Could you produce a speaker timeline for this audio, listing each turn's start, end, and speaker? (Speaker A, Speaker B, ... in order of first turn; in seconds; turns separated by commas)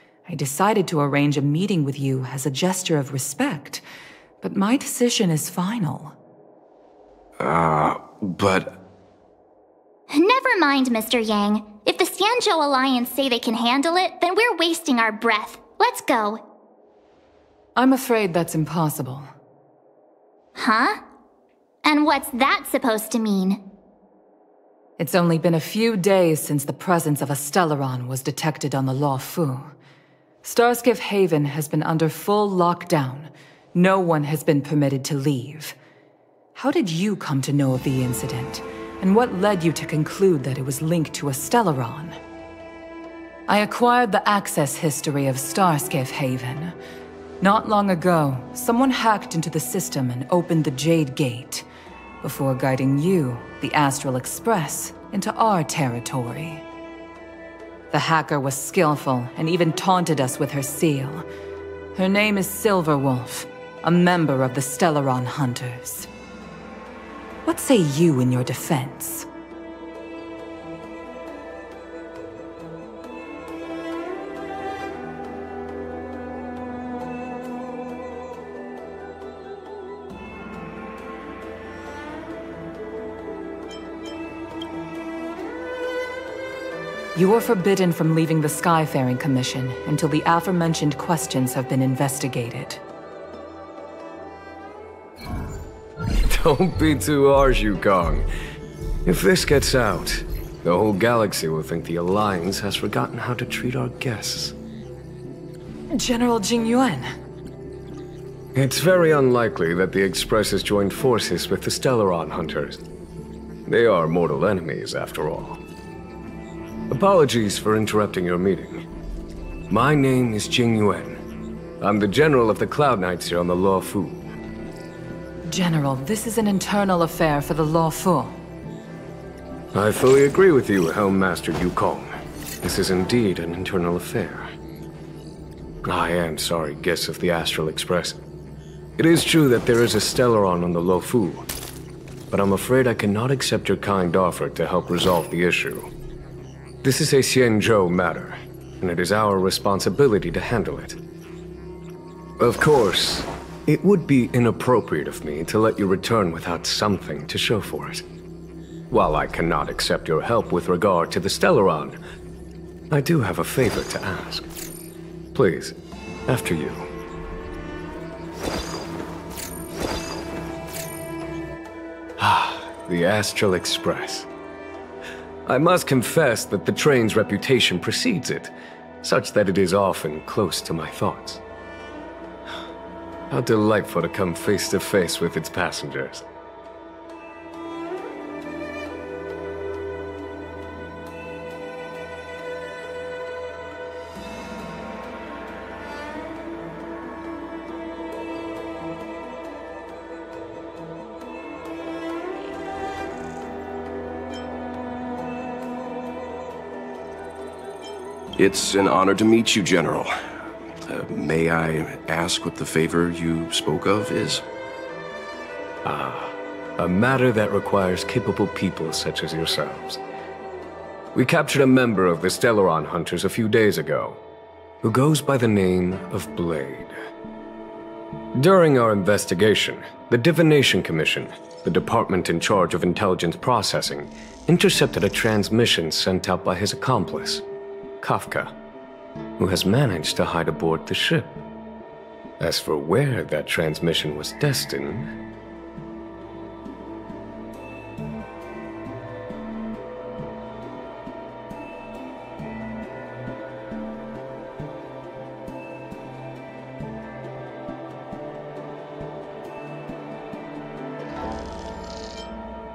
Speaker A: 0.3-3.8, Speaker A: 4.4-6.2, Speaker B: 7.4-8.8, Speaker C: 10.1-16.4, Speaker A: 17.8-19.3, Speaker C: 20.6-21.0, Speaker C: 21.9-23.6, Speaker A: 25.0-29.7, Speaker A: 30.4-35.8, Speaker A: 36.5-42.2, Speaker A: 43.5-46.8, Speaker A: 47.4-51.7, Speaker A: 52.2-56.6, Speaker A: 57.9-61.3, Speaker A: 62.0-66.1, Speaker A: 67.5-69.3, Speaker A: 87.2-92.8, Speaker D: 96.3-98.2, Speaker D: 99.0-104.5, Speaker A: 106.0-107.1, Speaker D: 108.5-112.8, Speaker D: 113.7-115.6, Speaker D: 116.9-118.8, Speaker D: 119.7-121.2, Speaker D: 121.8-124.2, Speaker A: 125.5-128.4, Speaker D: 129.7-132.1, Speaker D: 132.6-134.5, Speaker D: 135.8-138.2, Speaker D: 139.0-141.5, Speaker D: 142.3-145.9, Speaker D: 146.8-151.0, Speaker D: 152.4-158.1, Speaker D: 158.9-162.0, Speaker D: 162.9-164.5, Speaker D: 165.3-165.8, Speaker D: 166.3-166.9, Speaker D: 172.2-174.3, Speaker D: 175.5-178.5, Speaker D: 179.0-181.4, Speaker D: 183.3-186.2, Speaker B: 208.4-210.1, Speaker B: 210.8-214.4, Speaker D: 215.8-220.0, Speaker D: 221.1-224.2, Speaker D: 224.8-226.9, Speaker D: 228.4-237.4, Speaker D: 238.0-238.5, Speaker D: 239.4-241.4, Speaker D: 242.4-245.1